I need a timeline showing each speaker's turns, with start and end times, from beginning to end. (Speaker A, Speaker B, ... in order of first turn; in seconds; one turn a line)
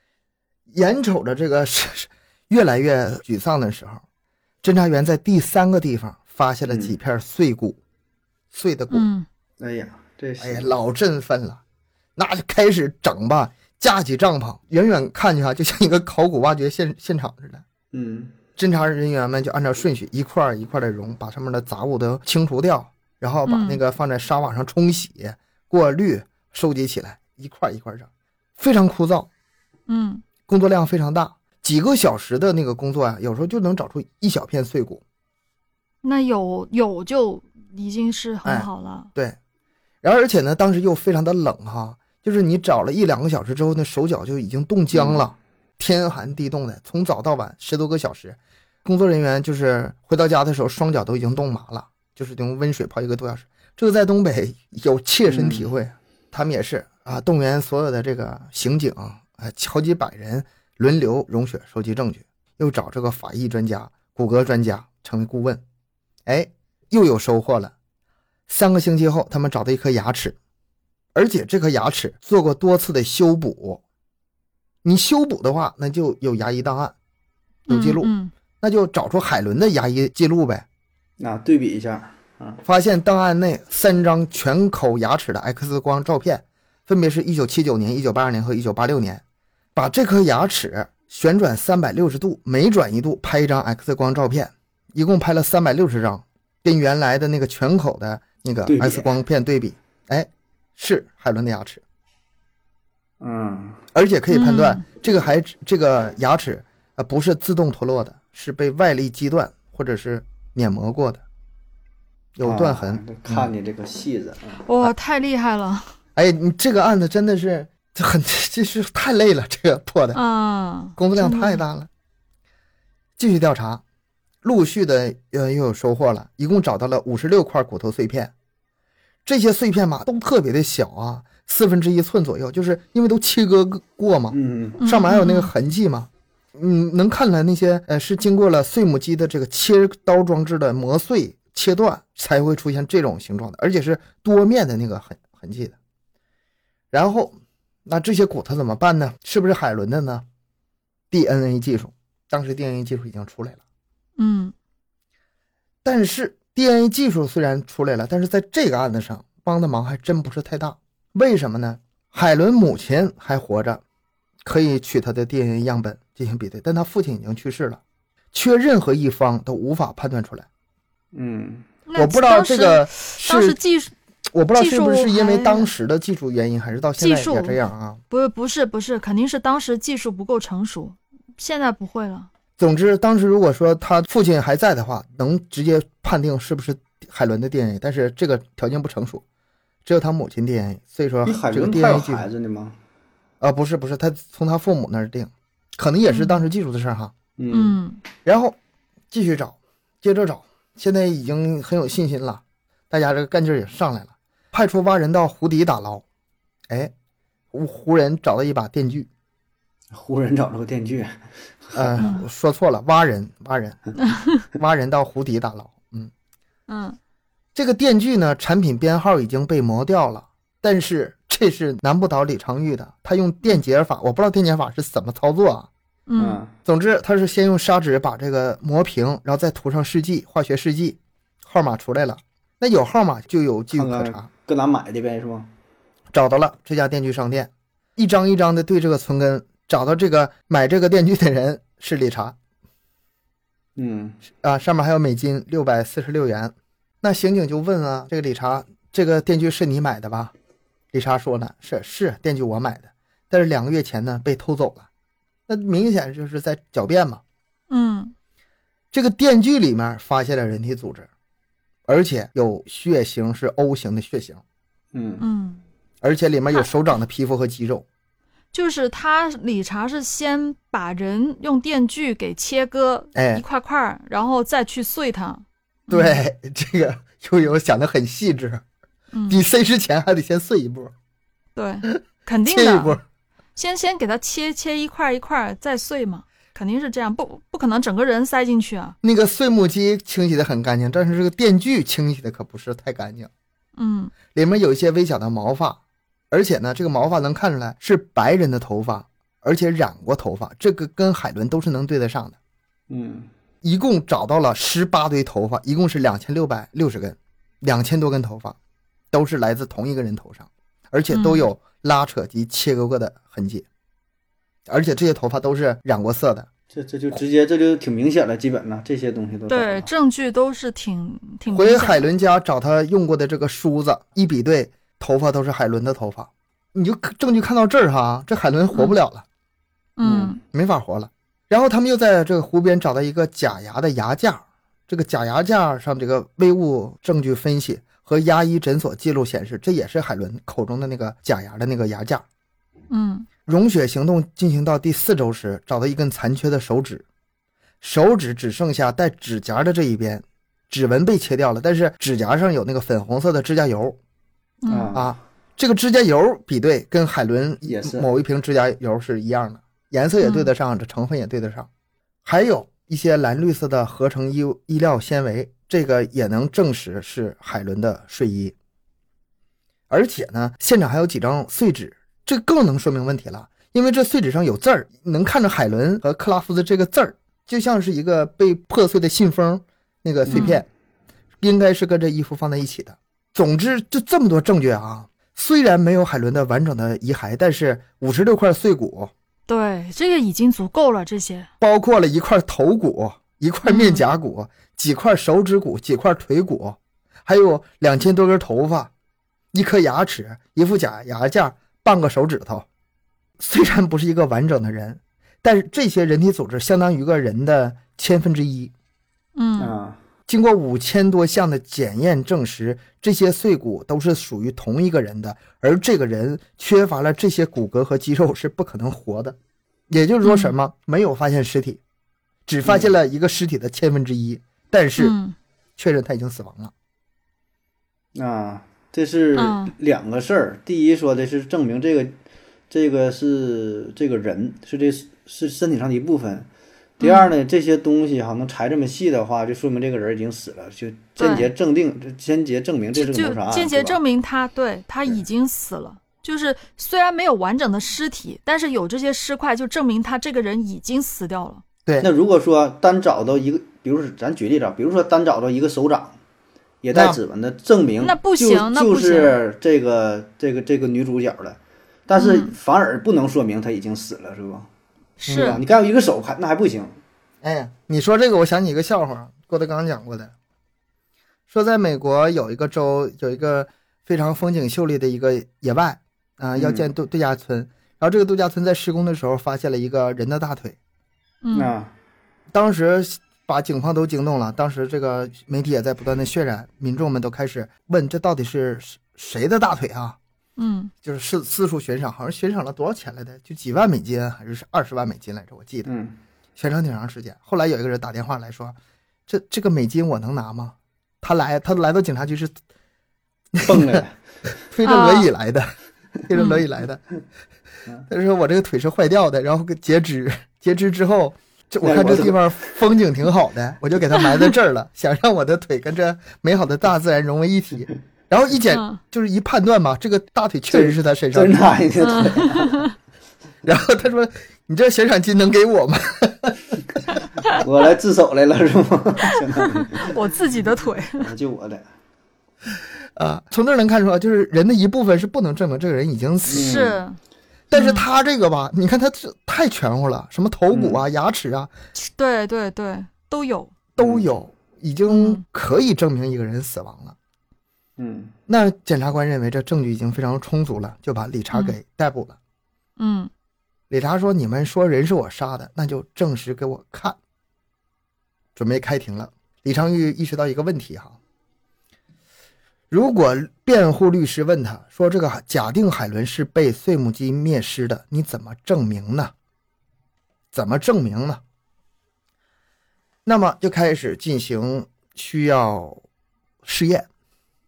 Speaker A: 0.7-4.0
Speaker A: 4.6-7.8
Speaker B: 6.7-6.9
Speaker A: 8.5-9.1
Speaker C: 8.9-9.3
Speaker B: 9.6-10.7
Speaker A: 10.4-11.6
Speaker A: 12.2-17.6
Speaker B: 17.9-18.4
Speaker A: 18.6-29.3
Speaker C: 23.5-23.8
Speaker C: 29.9-30.2
Speaker A: 30.5-35.0
Speaker C: 36.0-39.1
Speaker A: 38.4-39.4
Speaker A: 40.0-65.6
Speaker B: 44.9-45.2
Speaker B: 55.3-55.7
Speaker A: 66.3-67.7
Speaker A: 68.5-70.4
Speaker A: 71.2-73.8
Speaker A: 74.8-77.0
Speaker C: 77.7-78.3
Speaker A: 77.7-80.7
Speaker B: 81.2-82.6
Speaker A: 82.7-89.2
Speaker A: 89.8-101.8
Speaker B: 98.7-99.1
Speaker B: 103.2-103.8
Speaker A: 103.9-111.2
Speaker C: 104.3-104.8
Speaker A: 112.4-113.5
Speaker B: 112.4-114.7
Speaker C: 114.7-115.9
Speaker A: 116.2-120.2
Speaker C: 120.1-121.6
Speaker A: 121.0-121.9
Speaker A: 123.2-123.8
Speaker A: 124.4-128.3
Speaker A: 129.2-145.8
Speaker B: 134.3-134.8
Speaker C: 134.8-135.5
Speaker A: 146.9-150.2
Speaker A: 151.1-153.6
Speaker C: 154.2-154.5
Speaker A: 155.8-163.8
Speaker A: 164.4-167.8
Speaker A: 168.3-170.5
Speaker B: 171.1-171.7
Speaker C: 171.9-173.9
Speaker A: 172.0-173.6
Speaker A: 174.3-178.0
Speaker C: 174.6-175.7
Speaker C: 177.0-177.6
Speaker C: 178.1-182.3
Speaker A: 182.6-189.2
Speaker A: 189.8-192.2
Speaker B: 191.2-192.8
Speaker A: 193.4-197.1
Speaker C: 196.1-196.4
Speaker B: 197.4-197.8
Speaker C: 197.5-198.0
Speaker A: 198.2-198.6
Speaker A: 199.1-206.0
Speaker A: 207.5-209.1
Speaker B: 209.9-212.1
Speaker A: 211.8-216.1
Speaker C: 216.7-217.0
Speaker A: 217.6-225.7
Speaker C: 226.1-226.4
Speaker B: 226.2-226.5
Speaker A: 226.7-234.3
Speaker B: 233.7-235.5
Speaker A: 236.1-242.4
Speaker B: 243.8-244.2
Speaker A: 244.4-250.3
Speaker A: 250.9-254.9
Speaker A: 255.5-257.2
Speaker C: 257.7-258.1
Speaker A: 258.9-261.1
Speaker A: 261.9-264.4
Speaker B: 264.9-265.3
Speaker C: 265.2-265.6
Speaker A: 266.0-267.9
Speaker C: 268.5-276.2
Speaker A: 273.1-273.4
Speaker A: 275.9-278.6
Speaker C: 279.1-279.4
Speaker A: 279.3-280.9
Speaker C: 281.6-283.0
Speaker A: 282.5-283.0
Speaker C: 283.6-289.0
Speaker A: 289.0-293.3
Speaker C: 293.8-294.1
Speaker A: 294.3-295.8
Speaker A: 296.3-302.4
Speaker B: 302.9-303.3
Speaker A: 303.6-308.6
Speaker A: 309.1-313.7
Speaker C: 311.1-311.5
Speaker A: 314.7-316.5
Speaker B: 316.7-319.9
Speaker C: 319.5-322.1
Speaker A: 321.5-329.2
Speaker C: 330.0-330.4
Speaker B: 330.0-330.4
Speaker A: 330.5-342.2
Speaker C: 342.9-343.3
Speaker A: 343.5-347.1
Speaker A: 347.8-354.0
Speaker C: 354.6-354.9
Speaker B: 354.7-355.1
Speaker A: 354.9-361.7
Speaker B: 357.6-358.1
Speaker C: 360.2-360.5
Speaker A: 362.2-368.6
Speaker A: 369.9-380.7
Speaker B: 380.3-380.6
Speaker C: 380.3-380.6
Speaker A: 381.4-389.1
Speaker C: 389.5-391.5
Speaker A: 391.6-398.9
Speaker C: 393.6-394.0
Speaker A: 399.5-402.7
Speaker A: 403.4-408.7
Speaker C: 409.4-409.7
Speaker B: 409.6-410.0
Speaker A: 410.3-419.4
Speaker A: 419.9-421.8
Speaker C: 420.2-420.5
Speaker A: 422.5-425.2
Speaker B: 422.6-422.9
Speaker C: 425.0-425.4
Speaker A: 425.8-426.7
Speaker B: 428.1-432.1
Speaker C: 429.4-429.7
Speaker B: 432.7-436.5
Speaker B: 437.0-444.0
Speaker C: 437.0-437.3
Speaker C: 441.2-441.5
Speaker C: 442.9-451.6
Speaker B: 452.0-456.2
Speaker B: 456.8-464.7
Speaker A: 456.9-457.2
Speaker C: 458.0-459.4
Speaker C: 462.2-462.5
Speaker C: 465.2-465.6
Speaker A: 465.3-465.6
Speaker B: 465.3-467.0
Speaker A: 467.4-470.3
Speaker A: 471.5-480.8
Speaker B: 476.6-476.9
Speaker C: 481.4-481.7
Speaker B: 481.5-481.9
Speaker A: 482.5-490.2
Speaker C: 490.6-490.9
Speaker A: 491.0-495.9
Speaker B: 495.9-496.2
Speaker A: 496.6-498.8
Speaker A: 499.3-502.5
Speaker A: 503.5-504.0
Speaker B: 503.6-504.2
Speaker A: 504.7-505.7
Speaker C: 504.8-505.3
Speaker A: 506.3-507.0
Speaker C: 506.3-506.6
Speaker A: 508.1-521.6
Speaker B: 511.8-512.8
Speaker C: 518.7-519.0
Speaker B: 520.7-522.9
Speaker C: 522.0-522.9
Speaker A: 523.6-526.8
Speaker B: 527.5-530.1
Speaker C: 529.8-531.3
Speaker B: 531.2-531.9
Speaker A: 533.2-536.8
Speaker B: 536.5-537.0
Speaker C: 536.5-537.2
Speaker A: 537.7-541.7
Speaker C: 537.7-538.1
Speaker B: 540.7-541.0
Speaker C: 542.0-543.7
Speaker A: 544.0-547.2
Speaker B: 544.0-544.3
Speaker C: 545.1-545.4
Speaker B: 548.0-548.3
Speaker A: 548.5-552.4
Speaker C: 553.0-553.3
Speaker A: 553.9-557.2
Speaker A: 558.6-561.2
Speaker A: 562.9-569.3
Speaker A: 570.5-571.4
Speaker A: 573.2-576.0
Speaker A: 576.6-577.1